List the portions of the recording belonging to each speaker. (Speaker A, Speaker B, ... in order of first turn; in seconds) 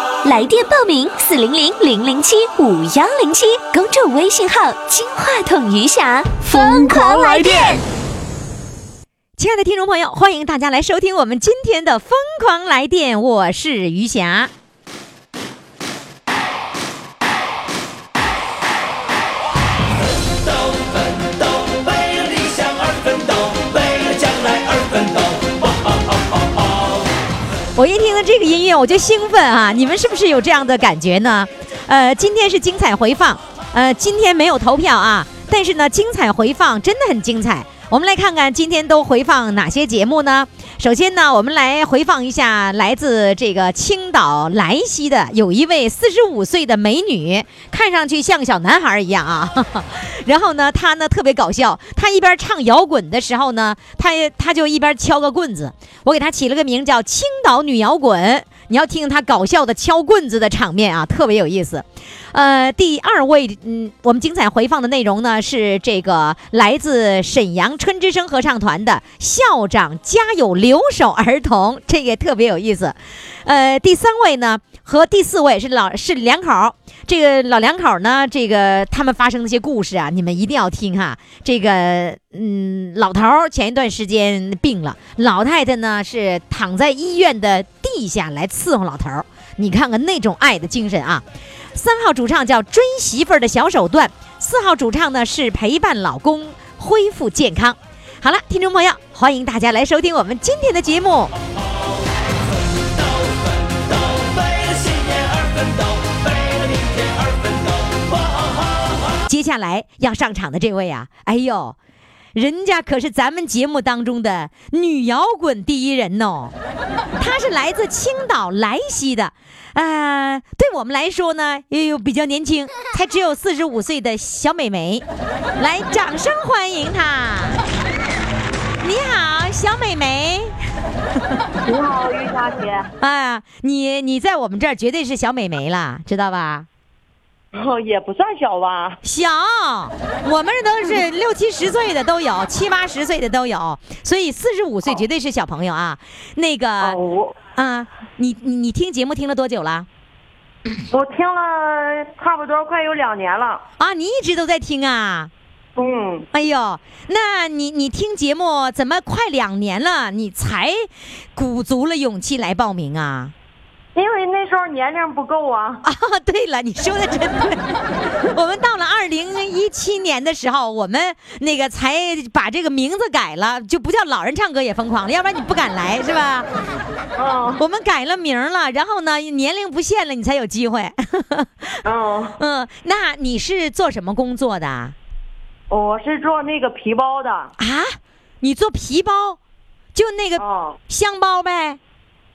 Speaker A: 0.2-7.8
Speaker B: 9.4-14.5, 27.8-91.2, 91.7-101.3, 109.3-111.8, 112.3-116.5, 117.2-125.0, 125.6-127.6, 128.8-130.5, 133.0-136.7, 139.0-147.0, 147.5-149.9, 153.8-155.3, 156.3-163.3, 165.8-167.6, 168.3-176.5, 177.6-181.8, 182.4-184.9, 187.6-189.4, 189.9-191.8
Speaker C: 131.7-132.9, 137.5-139.0, 146.8-147.3, 150.9-153.6, 155.8-156.2, 163.9-165.8, 177.2-177.6, 181.8-182.4, 185.7-187.5, 190.4-190.8